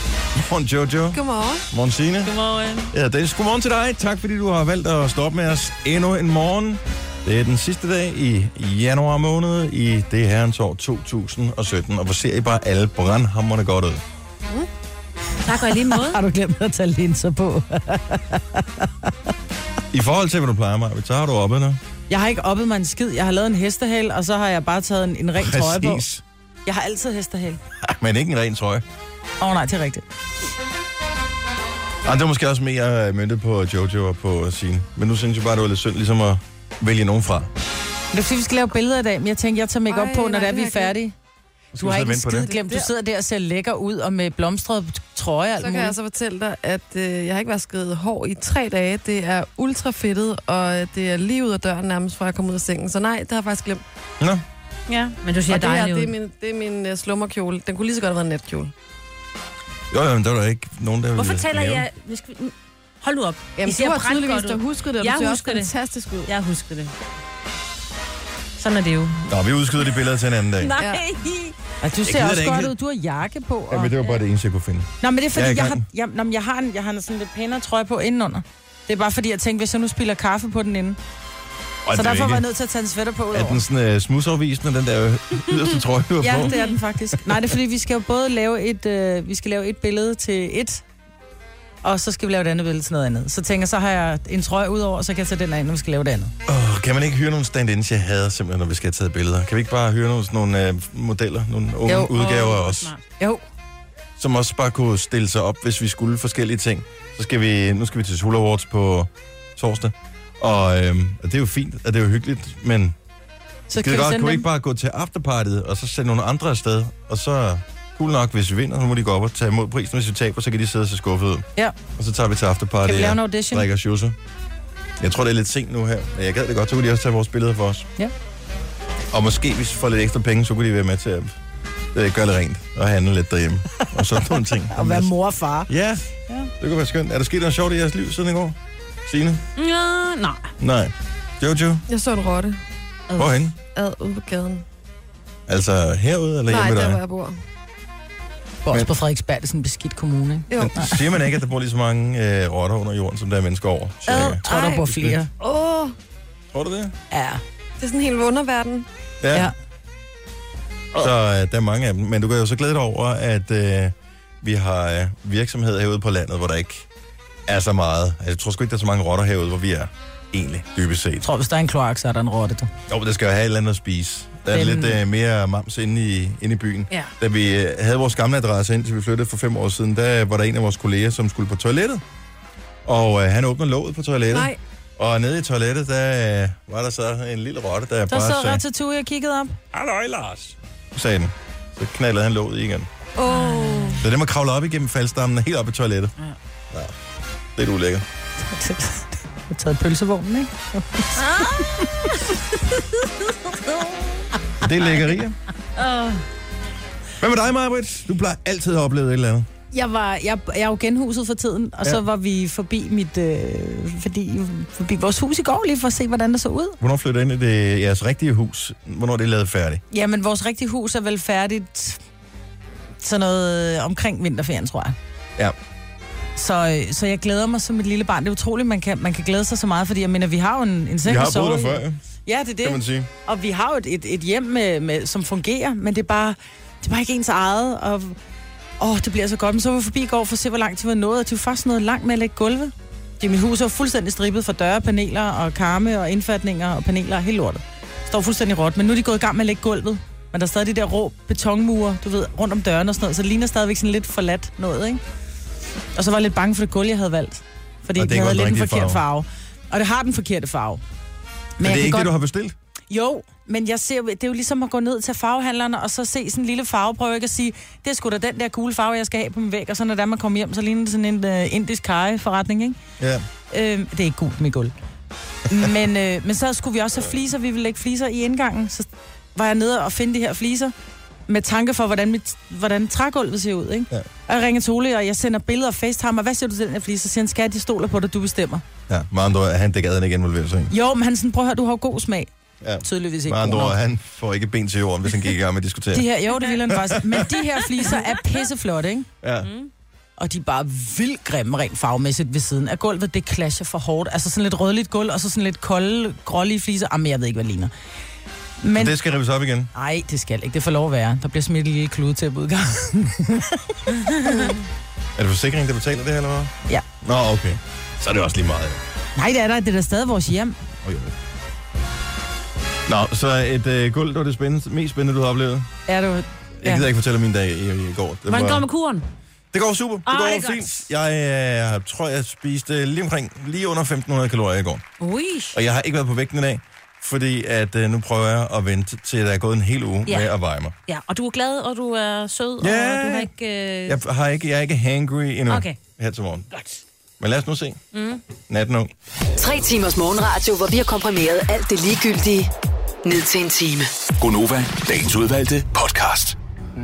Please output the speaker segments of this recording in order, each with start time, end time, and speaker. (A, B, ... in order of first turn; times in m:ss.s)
0:00.4-0:02.3 A
0:01.1-0:01.6 B
0:02.2-0:02.9 C
0:02.9-0:14.0 A
0:15.4-0:16.2 C
0:15.6-0:18.9 D
0:19.9-0:21.8 A
0:22.1-0:26.0 D
0:25.4-0:26.2 A
0:26.6-0:27.6 D
0:27.8-0:28.8 A
0:29.4-0:30.0 D
0:32.0-0:37.5 A
0:38.1-0:41.1 D
0:39.9-0:41.0 B
0:41.7-0:42.5 A
0:41.8-0:45.9 D
0:42.4-0:42.9 B
0:45.6-0:53.8 B
0:54.9-0:56.1 C
0:55.5-0:58.7 B
0:59.9-1:01.8 A
1:01.1-1:05.7 C
1:03.6-1:06.3 B
1:06.2-1:06.9 C
1:08.6-1:09.2 C
1:09.3-1:10.7 A
1:10.6-1:11.6 C
1:10.8-1:11.0 B
1:11.8-1:13.9 D
1:12.0-1:12.7 A
1:13.7-1:15.8 A
1:15.0-1:21.0 D
1:21.8-1:22.4 A
1:21.9-1:23.6 D
1:23.3-1:26.6 A
1:26.2-1:30.8 D
1:31.8-1:36.3 D
1:36.5-1:42.9 A
1:41.9-1:43.0 C
1:44.2-1:52.9 A
1:53.7-1:54.4 D
1:53.8-2:04.2 A
2:02.8-2:03.6 D
2:05.0-2:07.9 A
2:09.1-2:11.4 A
2:11.9-2:15.1 A
2:14.2-2:15.7 D
2:15.7-2:16.0 A
2:16.6-2:19.4 A
2:19.6-2:20.5 C
2:20.6-2:21.8 A
2:21.9-2:22.6 B
2:23.2-2:23.5 A
2:23.7-2:24.6 B
2:25.5-2:27.0 A
2:26.5-2:27.4 B
2:28.6-2:30.9 D
2:30.5-2:30.9 B
2:30.6-2:35.2 A
2:34.0-2:35.3 D
2:34.4-2:36.0 B
2:36.5-2:36.9 A
2:37.1-2:37.4 D
2:37.8-2:38.9 B
2:39.2-2:39.5 A
2:40.9-2:46.9 A
2:47.5-2:51.2 A
2:51.2-2:52.7 D
2:52.9-3:02.0 A
2:54.5-2:55.0 D
3:02.8-3:08.6 A
3:04.3-3:04.6 B
3:08.1-3:09.6 D
3:09.7-3:12.9 A
3:13.1-3:14.0 B
3:13.2-3:14.0 C
3:14.0-3:16.1 A
3:17.6-3:18.0 A
3:18.5-3:21.6 D
3:21.2-3:21.6 C
3:24.6-3:25.4 A
3:25.8-3:26.2 C
3:27.2-3:29.5 A
3:29.7-3:36.8 D
3:36.8-3:39.8 A
3:39.9-3:42.0 D
3:43.0-3:44.9 D
3:46.4-3:58.2 D
3:51.0-3:52.0 A
3:52.6-3:53.1 A
3:58.8-4:15.0 D
4:15.9-4:20.8 D
4:18.0-4:19.0 A
4:21.6-4:22.1 D
4:21.6-4:22.5 A
4:22.9-4:32.8 D
4:33.0-4:33.2 A
4:33.5-4:34.7 D
4:35.5-4:40.7 D
4:41.3-4:48.6 D
4:48.9-4:50.7 A
4:50.7-4:52.3 D
4:52.6-4:56.0 A
4:52.8-4:53.8 D
4:55.9-4:59.1 D
4:56.7-4:57.3 A
4:59.2-4:59.5 A
4:59.4-4:59.7 C
5:00.2-5:07.7 D
5:08.6-5:08.9 D
5:08.8-5:09.7 A
5:09.7-5:14.4 D
5:14.2-5:14.6 B
5:15.2-5:18.8 A
5:19.2-5:20.6 D
5:20.8-5:21.1 A
5:22.9-5:25.7 A
5:25.9-5:26.9 D
5:26.6-5:28.6 A
5:28.3-5:29.1 C
5:29.5-5:34.8 A
5:30.0-5:30.9 C
5:35.0-5:35.6 C
5:35.5-5:40.7 A
5:40.9-5:44.0 C
5:42.6-5:43.3 A
5:43.8-5:46.5 A
5:45.5-5:45.8 C
5:47.2-5:47.8 A
5:47.9-5:48.2 C
5:48.5-5:48.9 A
5:49.4-5:52.5 E
5:53.0-5:53.9 E
5:54.2-5:56.4 F